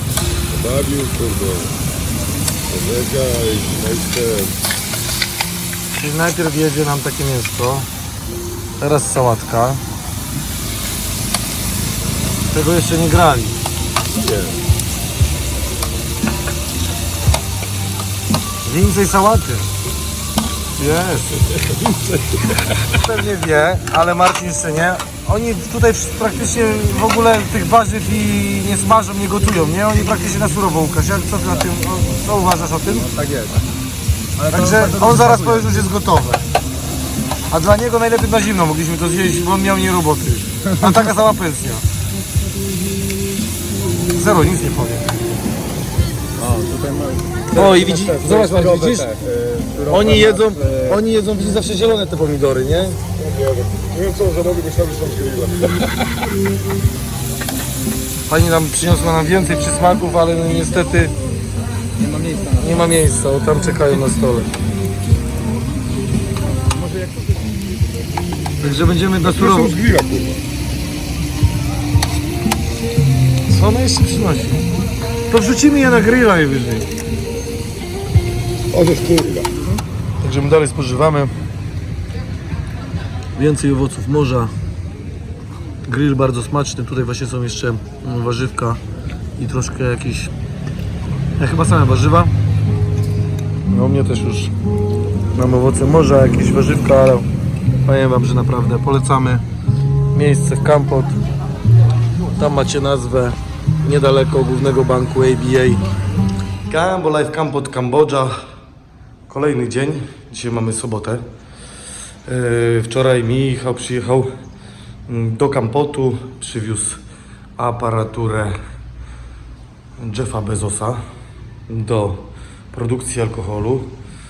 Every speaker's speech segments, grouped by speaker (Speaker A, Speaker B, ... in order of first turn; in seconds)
Speaker A: 0.5-1.7, 2.7-4.6, 14.2-14.6, 21.7-22.4, 53.2-55.8, 69.2-70.4, 78.7-79.6
Speaker B: 5.9-7.9, 8.8-9.8, 12.5-13.6, 18.6-19.7, 20.8-21.6, 22.9-33.1, 34.5-36.4, 37.5-41.8, 44.1-45.1, 47.5-49.1, 49.9-53.0, 58.3-61.1, 62.6-64.5, 68.6-69.8, 73.5-74.7, 75.3-76.9, 80.2-81.3, 83.3-84.5, 85.8-88.8, 89.4-90.3, 91.4-92.3, 93.7-94.5, 95.3-97.3, 97.8-99.4, 100.1-101.2, 102.3-105.8, 106.7-108.3, 109.3-111.2, 112.2-114.3, 115.1-117.0, 117.6-118.5, 120.0-121.0, 121.7-124.0
Speaker C: 32.9-33.6, 34.4-35.7, 46.4-51.0, 62.0-62.8, 66.5-67.6